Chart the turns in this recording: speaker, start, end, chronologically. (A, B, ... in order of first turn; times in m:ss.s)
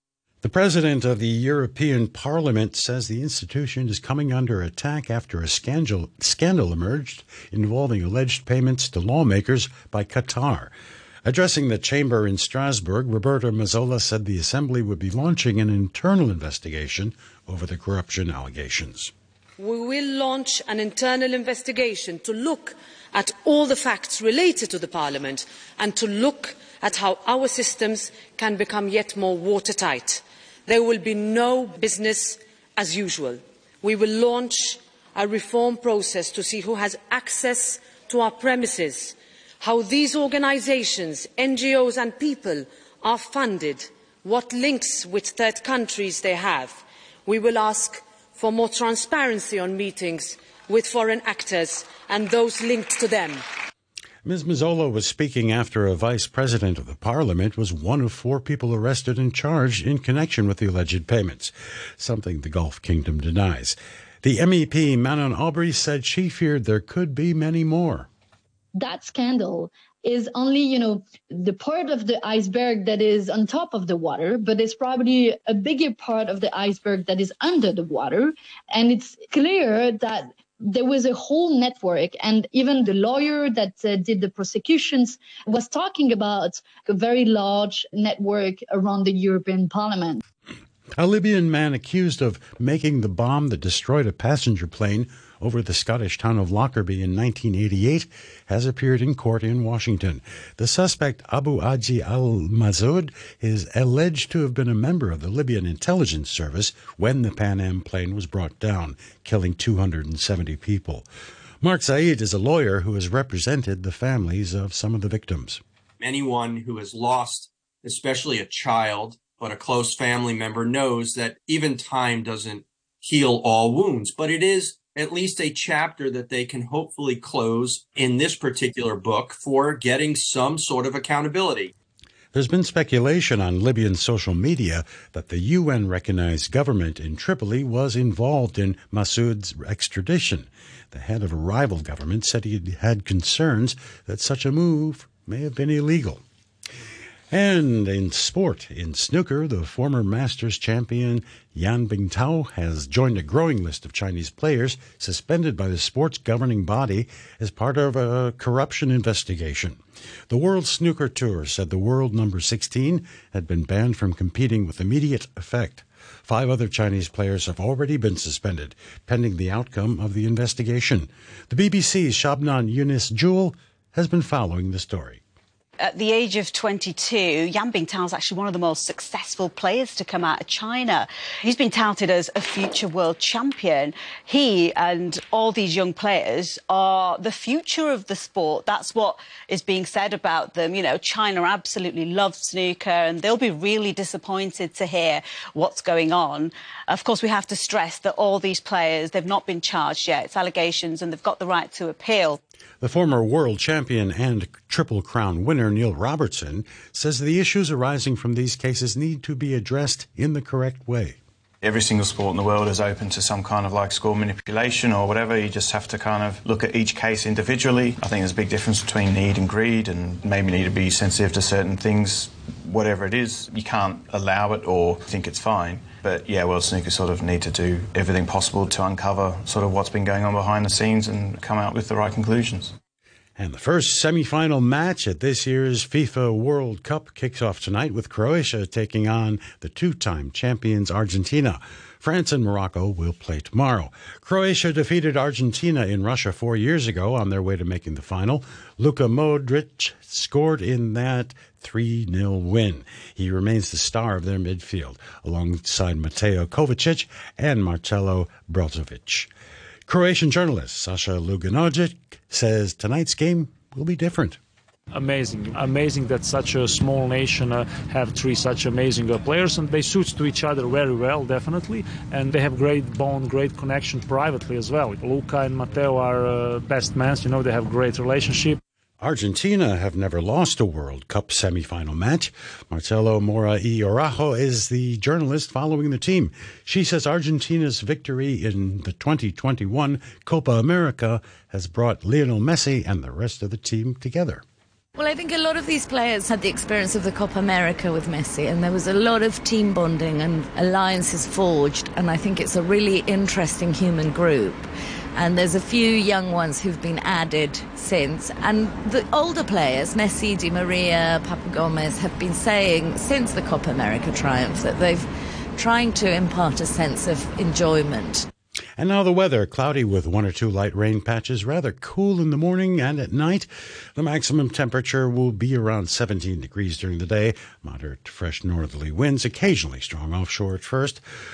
0:00.4-0:10.7 A
0:11.2-0:19.1 A
0:19.6-0:53.4 B
0:54.2-1:08.1 A
1:08.7-1:30.2 C
1:31.0-1:51.0 A
1:51.6-1:55.6 A
1:56.0-2:11.7 D
2:12.3-2:26.2 A
2:27.3-2:55.2 A
2:55.8-3:22.4 E
3:22.8-3:31.2 A
3:31.6-3:52.7 F
3:53.4-4:19.3 A
4:19.9-4:24.4 A
4:24.9-4:38.6 G
4:39.0-4:54.4 A
4:55.0-5:18.3 H
5:18.8-5:31.0 A